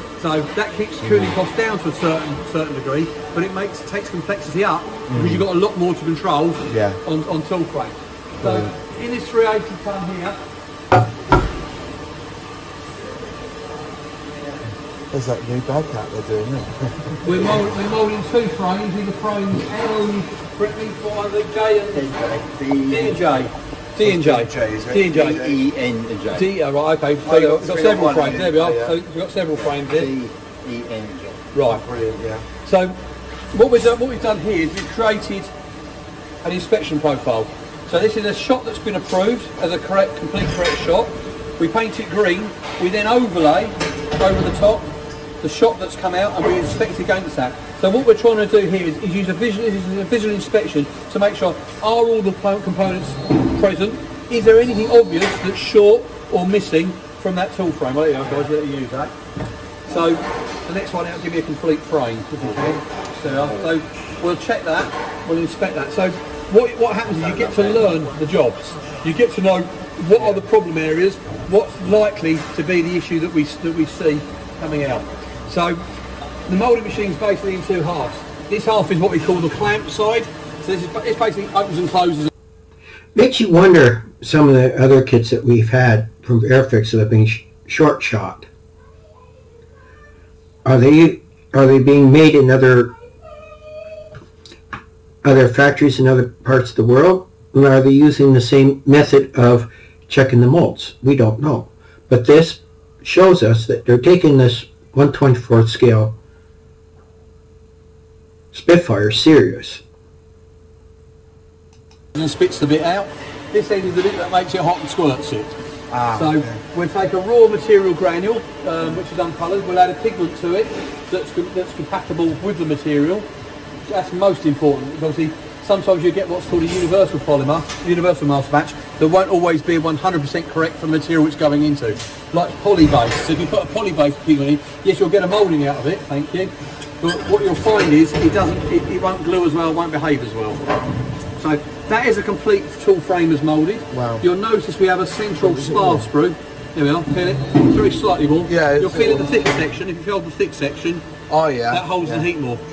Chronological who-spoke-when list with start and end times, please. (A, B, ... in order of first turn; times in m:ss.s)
0:00.2-0:10.4 A
0:05.1-0:05.4 B
0:06.7-0:07.0 B
0:15.1-0:17.2 B
0:17.2-0:22.1 A
0:22.0-0:23.3 C
0:22.9-0:25.4 A
0:24.0-0:25.6 B
0:25.3-0:26.5 C
0:26.3-0:30.1 A
0:27.3-0:29.0 B
0:29.6-0:31.4 C
0:31.5-0:31.8 A
0:31.7-0:32.4 B
0:32.6-0:33.0 A
0:33.5-0:35.5 A
0:36.4-0:59.1 A
0:59.9-1:15.8 A
1:16.5-1:22.3 A
1:23.2-1:28.5 D
1:30.6-1:33.0 D
1:35.2-1:46.2 D
1:48.5-1:49.8 D
1:52.1-1:55.5 A
1:55.9-1:56.6 B
1:56.1-2:03.3 A
2:03.8-2:20.6 A
2:21.4-2:31.0 A
2:23.9-2:24.2 B
2:25.6-2:26.0 B
2:28.5-2:29.4 B
2:31.3-2:32.2 B
2:31.7-2:32.6 A